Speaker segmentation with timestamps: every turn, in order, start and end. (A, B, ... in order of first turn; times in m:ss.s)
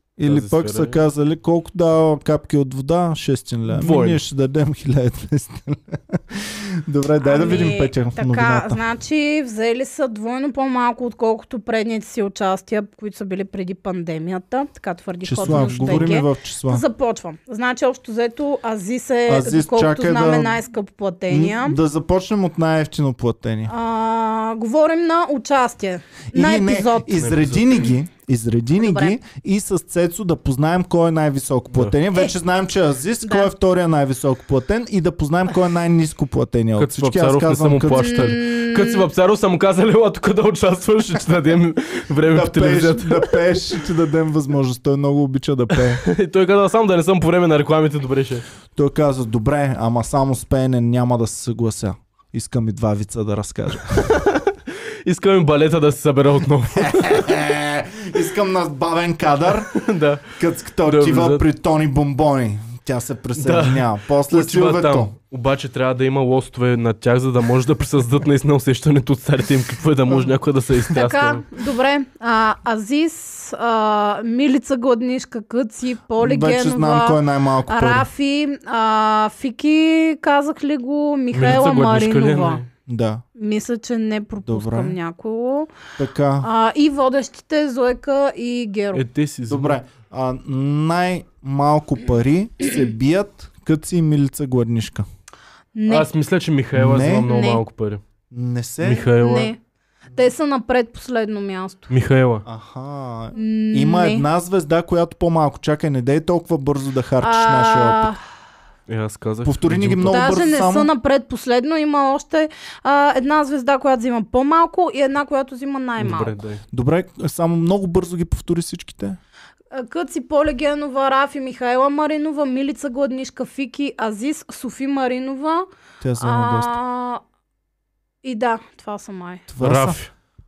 0:00.2-0:08.8 A
0:00.2-0:01.0 B
0:03.7-0:04.2 B
0:07.2-0:21.8 C
0:15.2-0:16.8 A
0:15.4-0:16.2 B
0:19.3-0:20.6 A
0:21.3-0:23.7 A
0:23.7-0:27.2 C
0:26.3-0:38.4 A
0:27.2-0:27.8 B
0:28.8-0:29.2 C
0:33.2-0:33.5 C
0:36.8-0:43.4 B
0:37.9-0:39.1 C
0:42.3-0:46.0 A
0:46.0-0:48.4 B
0:48.8-0:54.1 A
0:54.1-0:57.2 B
0:56.8-1:05.1 A
0:59.7-1:01.4 B
1:03.4-1:11.4 B
1:10.1-1:10.4 A
1:10.9-1:22.6 C
1:16.2-1:18.1 A
1:21.3-1:22.7 B
1:22.9-1:23.2 A
1:23.4-1:25.7 C
1:24.5-1:25.0 A
1:26.0-1:26.5 A
1:26.4-1:29.0 C
1:28.9-1:29.8 B
1:29.5-1:35.1 A
1:35.8-1:36.1 C
1:35.9-1:38.0 B
1:36.8-1:37.3 A
1:37.2-1:37.6 C
1:38.3-1:39.1 A
1:38.8-1:39.5 B
1:39.2-1:39.6 C
1:40.1-1:41.9 C
1:41.9-1:42.4 B
1:42.4-1:48.1 A
1:43.3-1:44.3 C
1:47.2-1:48.2 C
1:48.9-1:50.3 B
1:49.4-1:50.9 A
1:50.1-1:56.4 C
1:56.0-1:56.6 B
1:56.7-1:59.2 A
1:59.7-2:07.2 C
2:06.0-2:06.8 A
2:08.2-2:09.5 C
2:09.5-2:10.0 A
2:09.6-2:10.1 B